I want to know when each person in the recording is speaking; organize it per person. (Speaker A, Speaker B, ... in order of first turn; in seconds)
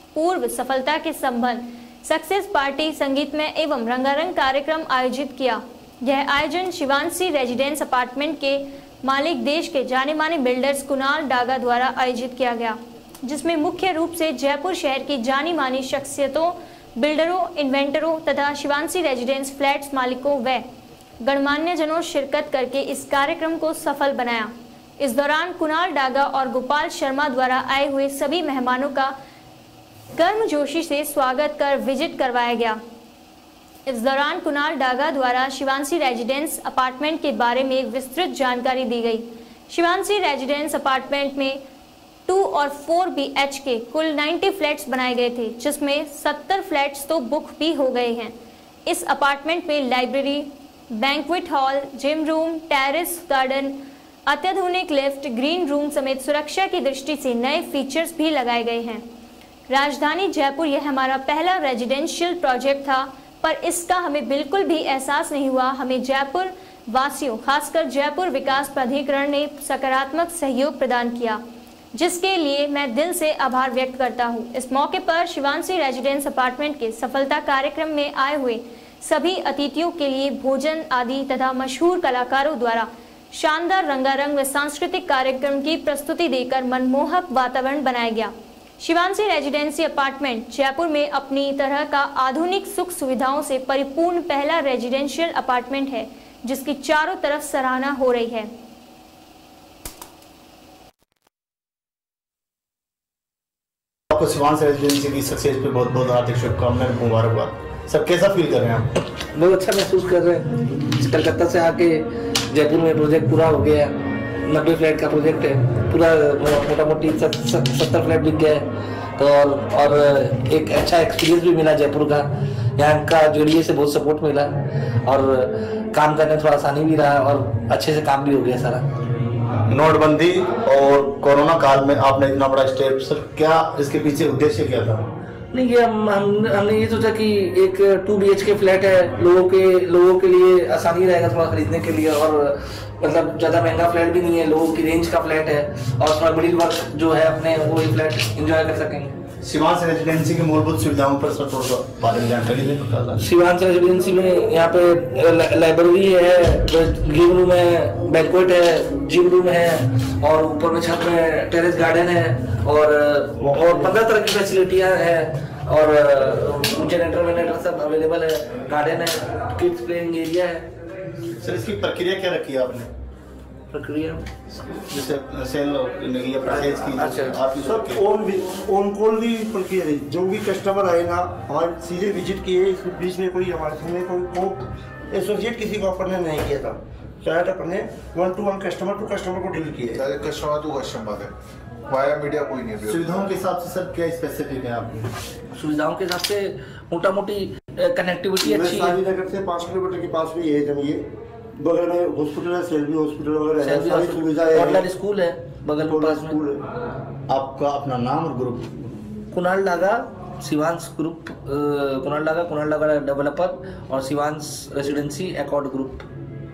Speaker A: 0.1-20.6, 21.2-29.1, 30.1-32.8, 33.9-41.6, 42.3-48.3, 48.9-59.0, 59.7-71.4, 71.9-98.5
Speaker B: 104.1-108.9, 129.7-135.1, 149.4-153.2, 171.4-172.9, 174.6-178.0, 192.8-195.1, 207.3-208.9
Speaker C: 109.3-118.7, 119.2-128.8, 135.5-149.2, 153.2-170.7, 173.7-174.3, 177.0-177.4, 195.6-199.0, 203.6-206.4, 209.3-216.1
Speaker D: 177.6-190.1, 198.4-201.0, 201.6-204.9, 205.9-206.6
Speaker E: 189.7-191.3, 191.9-193.2